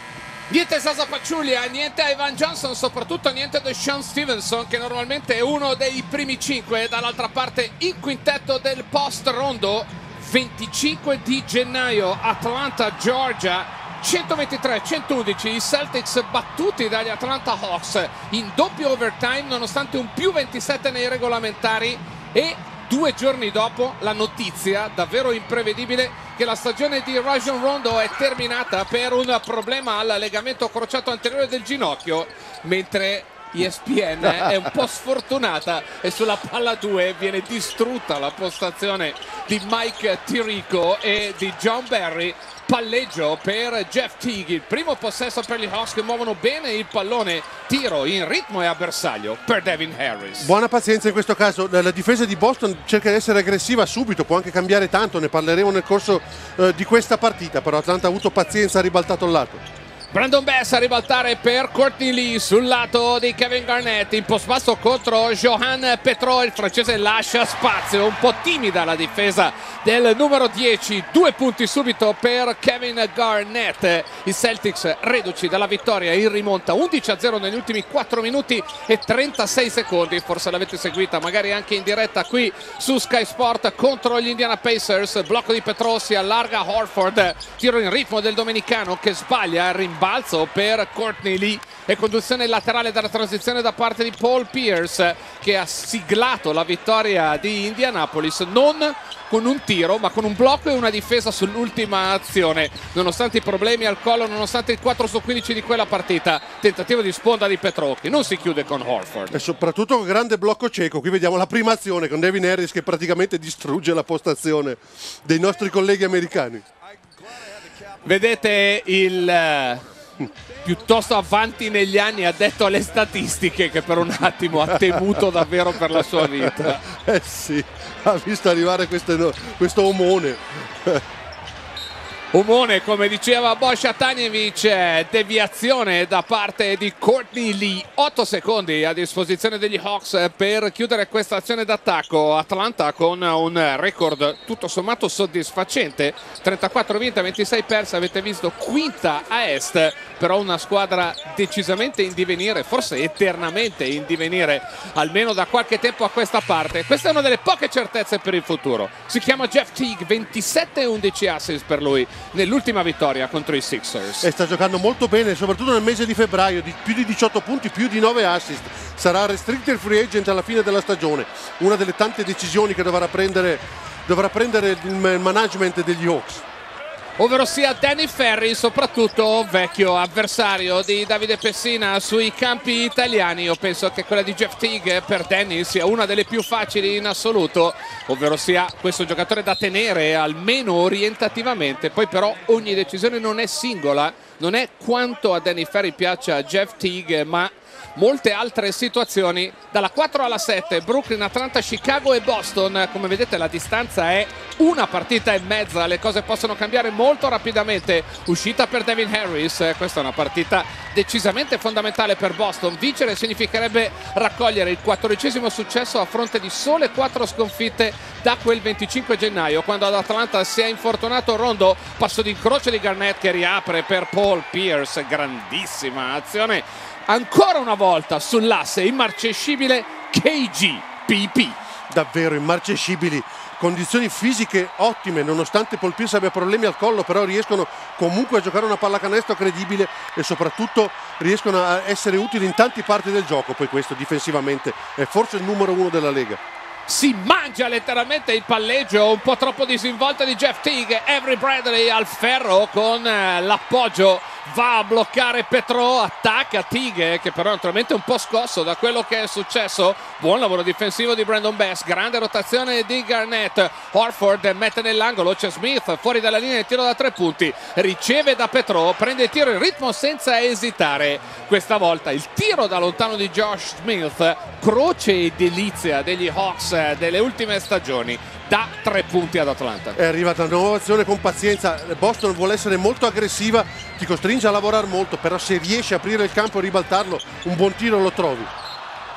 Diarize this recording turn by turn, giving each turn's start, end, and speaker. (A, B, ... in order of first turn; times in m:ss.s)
0:00.5-0:50.5 A
0:50.4-0:59.6 B
1:00.1-1:49.3 A
1:49.3-1:56.6 B
1:58.0-1:59.8 A
2:00.6-2:06.8 A
2:06.4-2:11.0 B
2:12.3-2:44.3 A
2:44.2-2:56.4 B
2:57.2-3:51.6 A
3:51.9-4:06.4 B
4:06.9-4:40.0 A
4:40.0-4:48.5 B